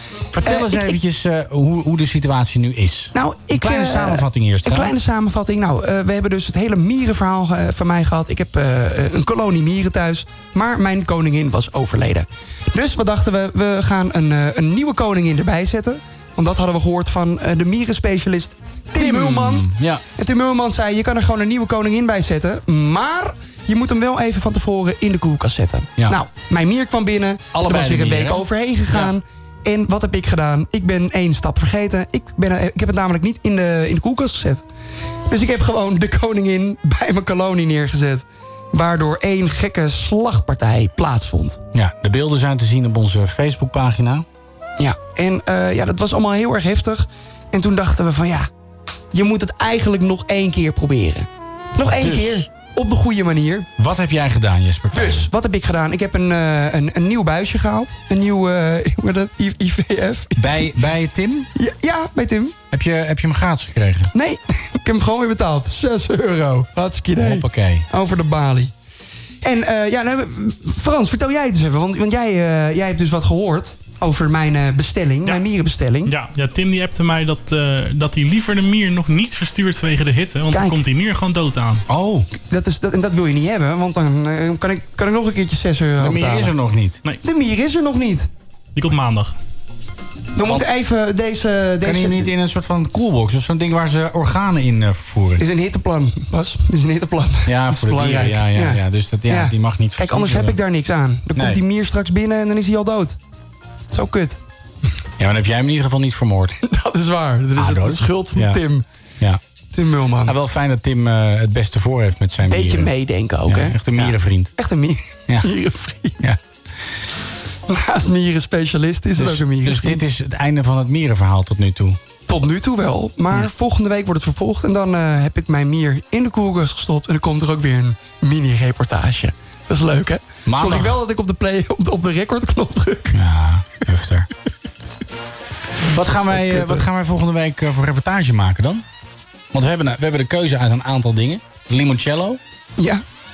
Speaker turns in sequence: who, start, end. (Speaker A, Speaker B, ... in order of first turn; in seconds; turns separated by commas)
Speaker A: 0.3-4.9, Speaker B: 0.4-0.9, Speaker B: 3.1-34.6, Speaker A: 18.9-20.0, Speaker A: 27.5-29.1, Speaker B: 35.3-41.6, Speaker A: 41.7-44.3, Speaker B: 44.8-48.5, Speaker B: 49.1-53.7, Speaker A: 51.8-52.5, Speaker A: 53.8-55.3, Speaker B: 54.9-60.7, Speaker A: 60.4-61.5, Speaker B: 61.6-62.6, Speaker A: 62.7-64.1, Speaker B: 64.1-68.7, Speaker A: 67.2-67.8, Speaker B: 69.4-76.2, Speaker C: 76.1-81.8, Speaker B: 80.5-80.8, Speaker A: 81.9-82.3, Speaker B: 82.3-86.5, Speaker A: 86.0-87.0, Speaker B: 87.2-88.3, Speaker C: 88.8-89.3, Speaker B: 90.4-92.3, Speaker A: 91.8-95.4, Speaker B: 95.4-103.2, Speaker A: 97.5-100.6, Speaker B: 103.9-104.4, Speaker A: 105.2-106.6, Speaker B: 106.6-108.8, Speaker A: 107.6-108.6, Speaker B: 109.7-110.4, Speaker A: 110.3-112.9, Speaker B: 112.4-116.2, Speaker A: 113.5-114.5, Speaker B: 117.7-120.0, Speaker A: 119.2-122.0, Speaker B: 122.3-133.2, Speaker A: 130.4-131.0, Speaker A: 133.1-134.3, Speaker A: 135.9-138.8, Speaker B: 136.2-136.8, Speaker A: 139.5-142.4, Speaker B: 142.8-143.0